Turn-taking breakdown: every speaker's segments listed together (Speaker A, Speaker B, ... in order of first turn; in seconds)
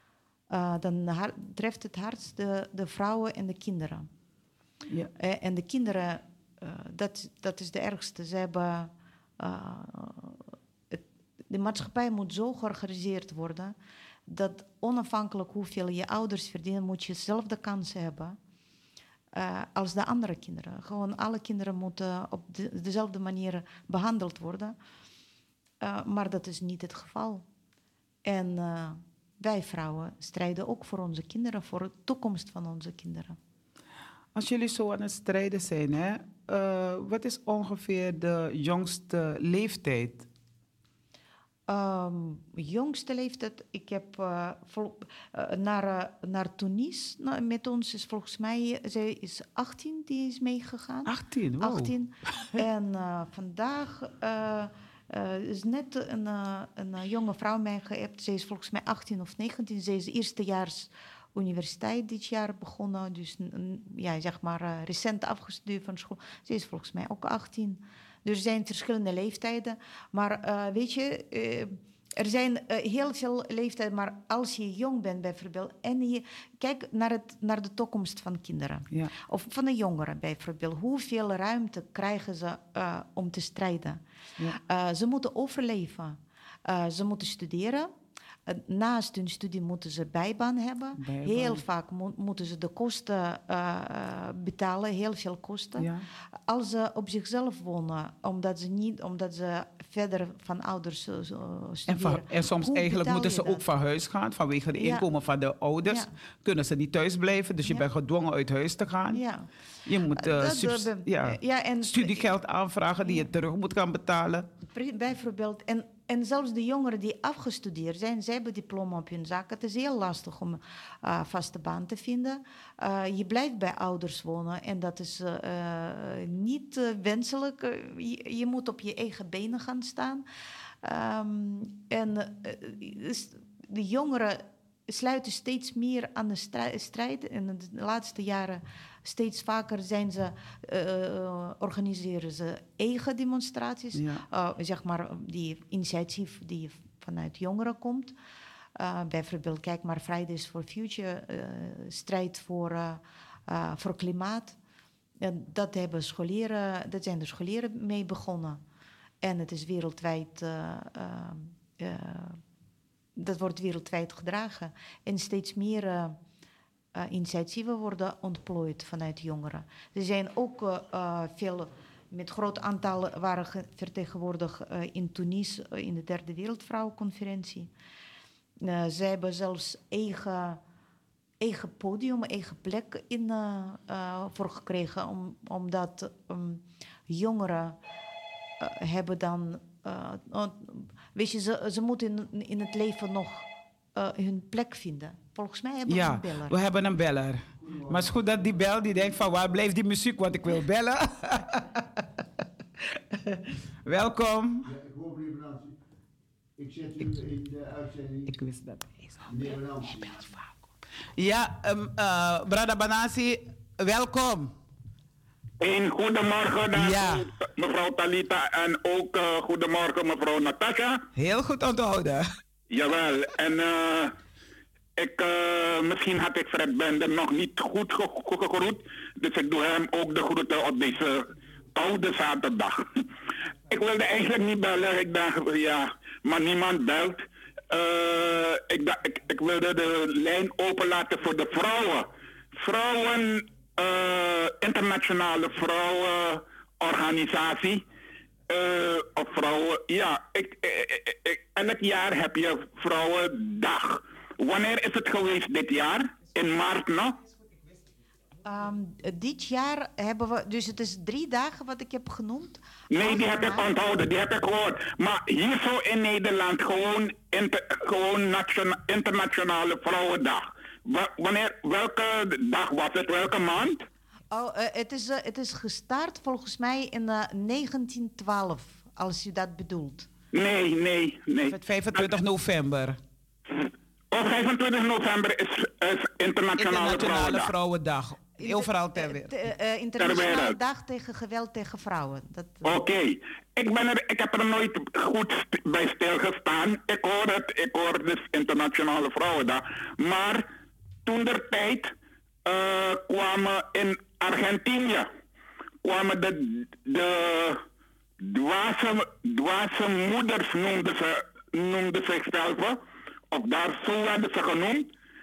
Speaker A: 0.5-4.1, 5.2-10.4, 10.9-13.8, 14.3-18.4, 19.4-24.8, 25.8-27.4, 28.2-33.4, 41.7-87.9, 88.5-95.9, 96.5-103.6, 104.8-105.1, 105.8-106.1, 109.1-109.5, 110.1-112.3, 114.7-130.2, 130.8-148.2, 148.8-154.6, 155.2-158.6, 159.2-162.4, 163.2-166.2, 166.9-177.7, 178.6-180.6, 181.4-187.8, 188.6-196.6, 258.4-263.7, 274.3-280.1, 288.4-292.8
Speaker B: 34.4-40.3, 51.1-52.0, 91.0-91.6, 95.8-96.0, 101.9-109.2, 109.8-114.5, 143.9-144.2, 195.9-202.0, 203.1-204.7, 208.3-210.5, 211.2-214.5, 216.7-217.3, 221.2-222.4, 281.4-283.0, 286.6-289.3
Speaker C: 197.6-198.4, 204.7-205.8, 206.6-208.3, 209.3-210.3
Speaker D: 215.6-221.0, 222.7-224.2, 225.0-232.9, 233.7-247.8, 248.5-257.2, 262.9-273.8, 280.3-282.1, 283.6-287.5, 290.0-290.6, 292.6-300.4, 301.1-301.9, 302.5-305.1, 305.8-307.6, 308.2-312.8, 313.3-314.9